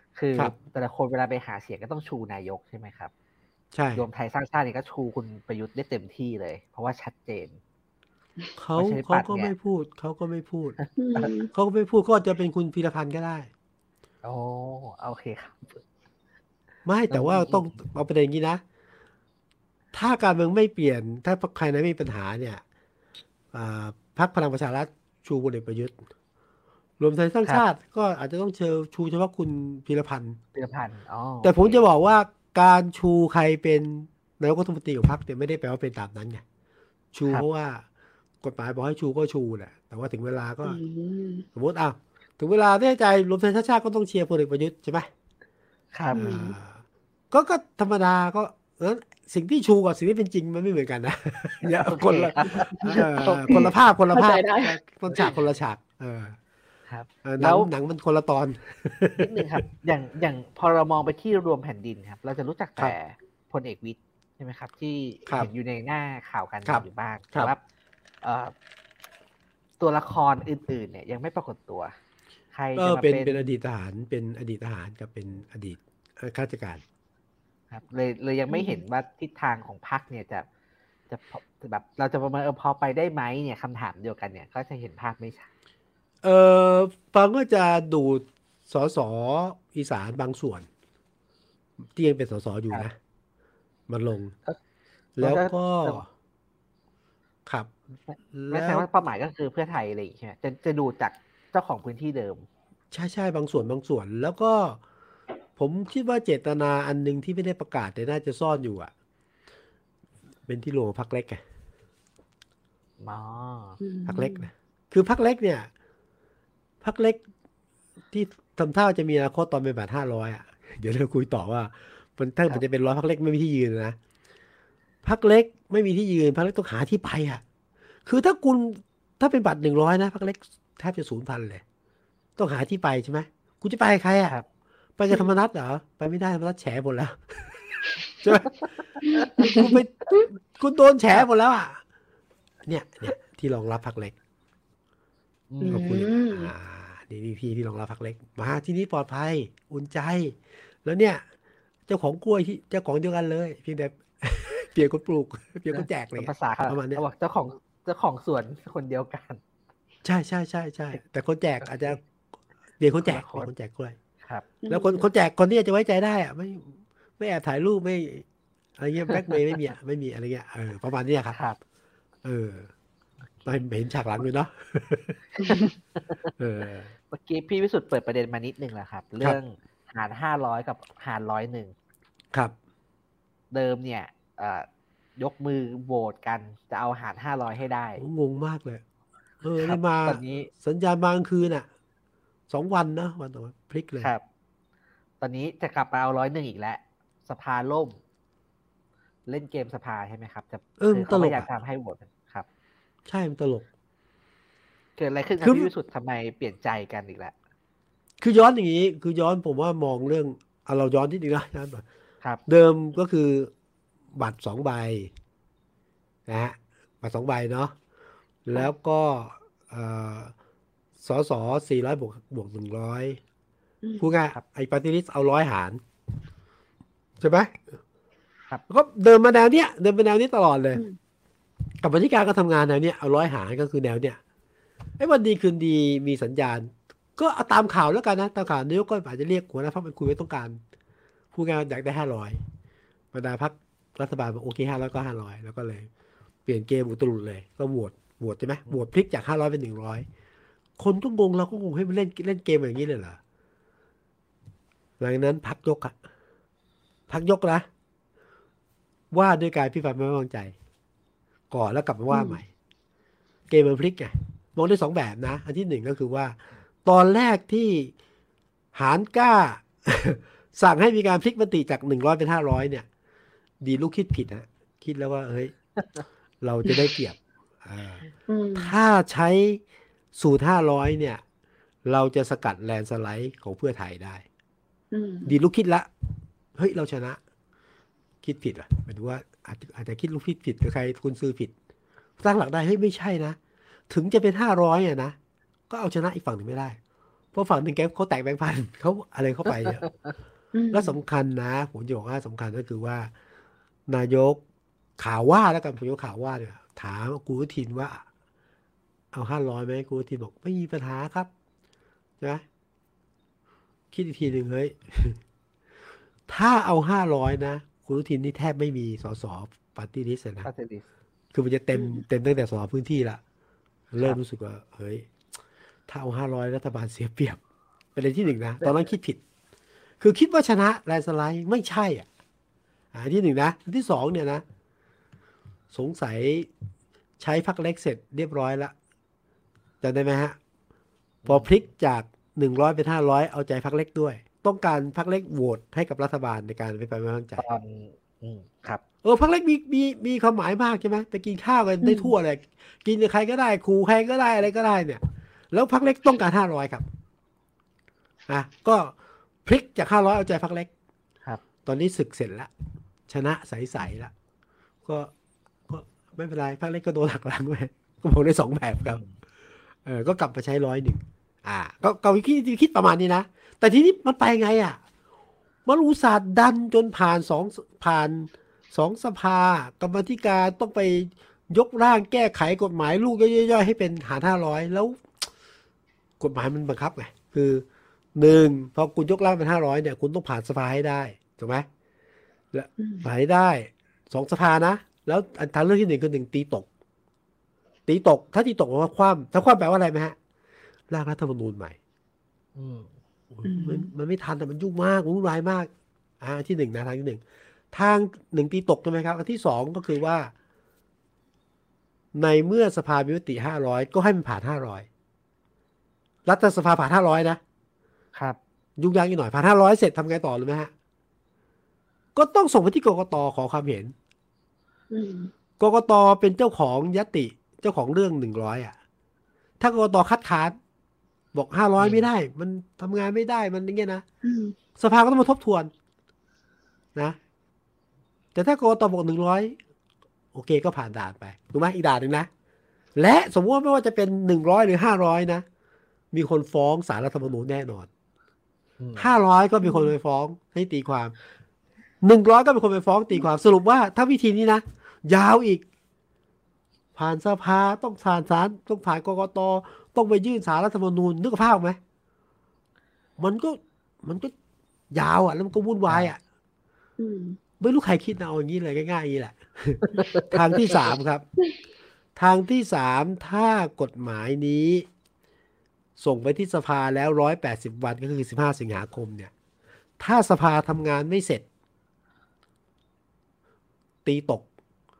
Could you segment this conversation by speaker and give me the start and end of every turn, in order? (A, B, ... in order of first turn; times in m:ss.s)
0:00.2-0:03.1 A
0:03.7-0:04.0 B
0:04.0-0:07.6 A
0:08.6-0:10.8 B
0:08.8-0:09.5 A
0:10.8-0:11.3 A
0:11.0-0:11.5 C
0:11.4-0:13.5 B
0:14.2-0:15.8 A
0:16.8-0:18.6 B
0:17.1-0:17.8 A
0:19.9-0:22.6 B
0:23.5-0:26.0 B
0:27.0-0:30.4 B
0:30.6-0:31.8 A
0:31.4-0:36.4 B
0:37.1-0:37.9 B
0:38.4-0:40.8 B
0:40.6-0:41.5 C
0:41.6-0:45.1 B
0:45.9-0:46.3 A
0:46.1-0:46.5 C
0:46.2-0:56.4 B
0:51.8-0:53.7 A
0:52.9-0:55.3 C
0:55.1-0:55.4 A
0:56.9-0:57.7 A
0:57.2-0:59.6 B
0:59.2-1:07.6 A
1:06.7-1:07.5 B
1:08.2-1:08.5 A
1:09.8-1:11.9 A
1:12.5-1:13.5 A
1:12.8-1:16.8 B
1:17.7-1:20.5 A
1:18.5-1:18.8 C
1:21.1-1:25.5 A
1:26.2-1:30.7 B
1:31.9-1:33.0 B
1:33.9-1:34.4 B
1:35.2-1:36.1 B
1:35.2-1:36.1 A
1:37.5-1:37.7 B
1:38.1-1:42.5 A
1:38.3-1:38.9 B
1:42.9-1:44.8 B
1:45.6-1:48.9 B
1:50.5-1:51.4 B
1:53.0-1:53.8 A
1:53.8-1:54.5 C
1:54.1-1:55.7 B
1:56.8-1:57.2 B
1:58.1-2:04.0 B
2:05.0-2:07.4 B
2:08.0-2:11.6 B
2:12.4-2:14.4 B
2:15.0-2:18.7 B
2:15.1-2:15.4 C
2:18.5-2:19.7 A
2:19.1-2:20.3 C
2:19.4-2:21.8 B
2:22.7-2:24.2 B
2:25.5-2:25.8 A
2:25.6-2:26.5 C
2:25.7-2:31.2 B
2:31.9-2:37.0 B
2:35.7-2:39.4 A
2:40.0-2:42.0 B
2:41.6-2:42.0 A
2:42.8-2:44.0 B
2:43.0-2:43.5 A
2:44.2-2:44.5 A
2:44.6-2:45.1 C
2:44.7-2:48.3 B
2:48.8-2:51.4 B
2:49.1-2:49.7 A
2:52.2-2:52.7 B
2:53.4-2:55.2 B
2:55.4-2:56.3 A
2:56.4-2:56.9 B
2:57.1-3:01.8 A
3:03.5-3:04.7 A
3:05.2-3:08.0 A
3:08.0-3:08.8 B
3:09.4-3:11.7 B
3:09.6-3:10.5 A
3:12.5-3:14.1 B
3:15.2-3:18.0 A
3:19.3-3:22.5 A
3:20.8-3:21.5 B
3:23.1-3:23.7 B
3:25.0-3:27.4 A
3:25.4-3:25.7 B
3:28.2-3:31.8 B
3:32.5-3:33.5 B
3:34.1-3:35.1 B
3:36.3-3:37.8 B
3:38.4-3:40.3 B
3:41.0-3:43.2 B
3:43.8-3:44.1 C
3:44.0-3:45.8 B
3:47.2-3:47.7 B
3:48.7-3:50.8 B
3:51.8-3:54.2 B
3:55.0-4:00.6 B
4:01.3-4:02.4 B
4:03.1-4:05.9 B
4:06.5-4:10.1 B
4:10.8-4:13.2 B
4:15.0-4:16.0 B
4:17.1-4:17.7 B
4:19.1-4:20.5 B
4:21.5-4:22.5 B
4:22.1-4:22.4 C
4:23.5-4:27.9 B
4:28.8-4:32.9 B
4:33.6-4:35.6 B
4:36.4-4:38.0 B
4:38.3-4:38.7 C
4:38.6-4:39.6 B
4:40.2-4:41.2 B
4:41.9-4:44.2 B
4:44.9-4:45.3 C
4:45.2-4:45.9 B
4:46.6-4:47.2 B
4:48.2-4:51.5 B
4:52.2-4:53.4 B
4:53.9-4:55.2 B
4:55.7-4:56.8 B
4:57.3-4:59.9 B
4:59.6-5:00.1 A
5:00.5-5:01.0 C
5:00.7-5:03.1 B
5:03.9-5:04.4 B
5:05.0-5:08.0 B
5:09.1-5:11.3 B
5:13.9-5:15.2 B
5:16.3-5:20.5 B
5:20.4-5:20.8 A
5:21.3-5:23.2 B
5:21.7-5:22.0 C
5:23.9-5:25.1 B
5:25.9-5:27.4 B
5:28.0-5:29.2 B
5:30.0-5:32.1 B
5:32.9-5:34.4 B
5:35.7-5:36.5 B
5:37.2-5:38.7 B
5:39.8-5:40.4 B
5:41.2-5:41.5 A
5:41.3-5:47.4 B
5:47.4-5:48.8 A
5:49.0-5:56.8 B
5:51.8-5:52.1 C
5:58.3-6:00.7 B
6:01.6-6:02.5 B
6:03.1-6:04.1 B
6:04.8-6:05.1 B
6:05.7-6:09.0 B
6:08.9-6:09.2 A
6:09.8-6:14.8 B
6:15.7-6:25.2 B
6:26.2-6:31.7 B
6:32.5-6:36.7 B
6:32.8-6:33.1 C
6:37.9-6:40.2 B
6:40.9-6:41.8 B
6:42.6-6:42.9 A
6:43.3-6:45.7 B
6:43.4-6:43.9 C
6:46.2-6:50.3 B
6:52.2-6:54.9 B
6:56.3-6:57.4 B
6:58.8-7:00.7 B
7:02.2-7:03.9 B
7:04.9-7:05.3 C
7:05.6-7:08.8 B
7:09.6-7:10.6 B
7:11.3-7:14.0 B
7:11.8-7:12.1 A
7:14.2-7:14.6 C
7:14.8-7:15.7 B
7:18.4-7:19.6 B
7:20.3-7:22.3 B
7:23.0-7:25.4 B
7:26.1-7:27.9 B
7:28.8-7:29.2 A
7:29.0-7:31.2 B
7:29.6-7:29.9 C
7:32.0-7:35.6 B
7:37.0-7:41.8 B
7:43.2-7:44.3 B
7:44.9-7:46.2 B
7:47.0-7:47.4 C
7:47.6-7:51.2 B
7:49.9-7:50.8 A
7:52.2-7:54.9 B
7:56.0-7:59.3 B
8:00.0-8:01.4 B
8:04.0-8:04.5 B